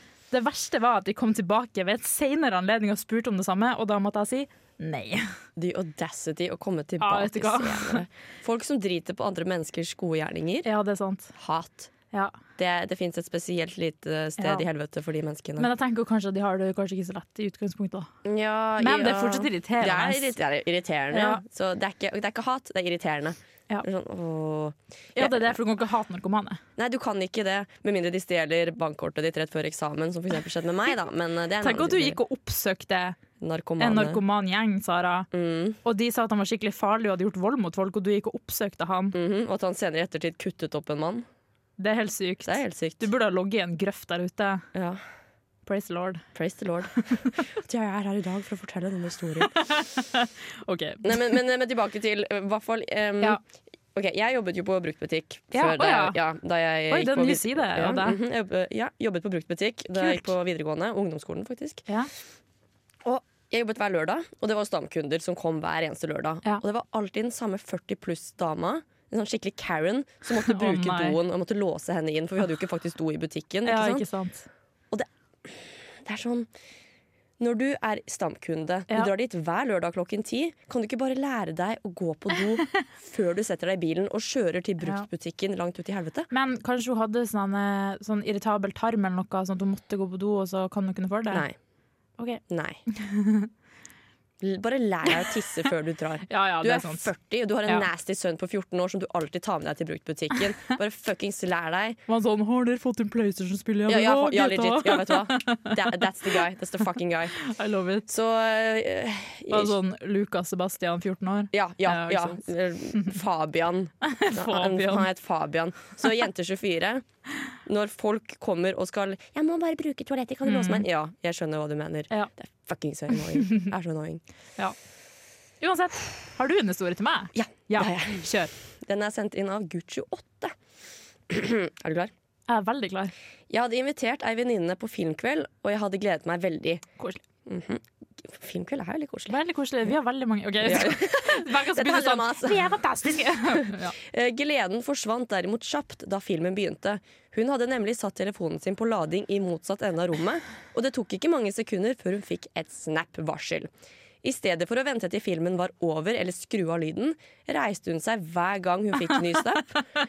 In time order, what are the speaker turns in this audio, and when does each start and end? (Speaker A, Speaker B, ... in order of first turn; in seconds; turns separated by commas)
Speaker A: 0.3-5.3, Speaker B: 5.6-10.7, Speaker A: 7.0-8.0, Speaker A: 10.7-11.3, Speaker B: 11.4-11.9, Speaker B: 12.6-15.7, Speaker A: 14.4-14.7, Speaker A: 15.6-18.1, Speaker B: 18.2-25.5, Speaker A: 18.8-20.3, Speaker A: 21.1-21.4, Speaker A: 25.2-26.6, Speaker B: 26.8-32.2, Speaker A: 31.6-33.2, Speaker B: 33.4-34.2, Speaker A: 33.8-35.3, Speaker B: 35.3-35.8, Speaker A: 35.8-39.1, Speaker B: 39.1-41.3, Speaker A: 41.8-44.6, Speaker B: 42.5-43.1, Speaker B: 44.7-45.0, Speaker A: 45.7-46.2, Speaker B: 46.4-49.5, Speaker A: 49.4-51.4, Speaker B: 51.0-53.4, Speaker B: 53.9-61.9, Speaker A: 55.5-56.2, Speaker A: 56.9-58.2, Speaker A: 60.0-60.3, Speaker B: 63.0-74.1, Speaker A: 70.5-71.2, Speaker A: 73.7-74.5, Speaker B: 74.9-76.5, Speaker B: 77.4-86.3, Speaker A: 84.8-85.1, Speaker A: 86.3-91.5, Speaker B: 91.3-91.5, Speaker A: 92.2-93.5, Speaker B: 92.5-92.8, Speaker B: 94.4-102.0, Speaker A: 96.3-97.1, Speaker A: 102.1-106.0, Speaker B: 103.9-107.3, Speaker A: 107.4-108.1, Speaker B: 108.1-109.8, Speaker A: 109.5-113.2, Speaker B: 111.5-117.0, Speaker A: 114.0-115.1, Speaker B: 117.7-124.2, Speaker A: 120.5-120.9, Speaker A: 123.4-123.7, Speaker A: 125.6-128.5, Speaker B: 127.3-128.3, Speaker B: 128.8-130.6, Speaker B: 131.3-132.1, Speaker A: 132.5-133.1, Speaker B: 133.5-136.9, Speaker B: 137.5-139.3, Speaker A: 139.3-143.9, Speaker B: 140.6-142.8, Speaker B: 143.5-153.7, Speaker B: 154.2-159.8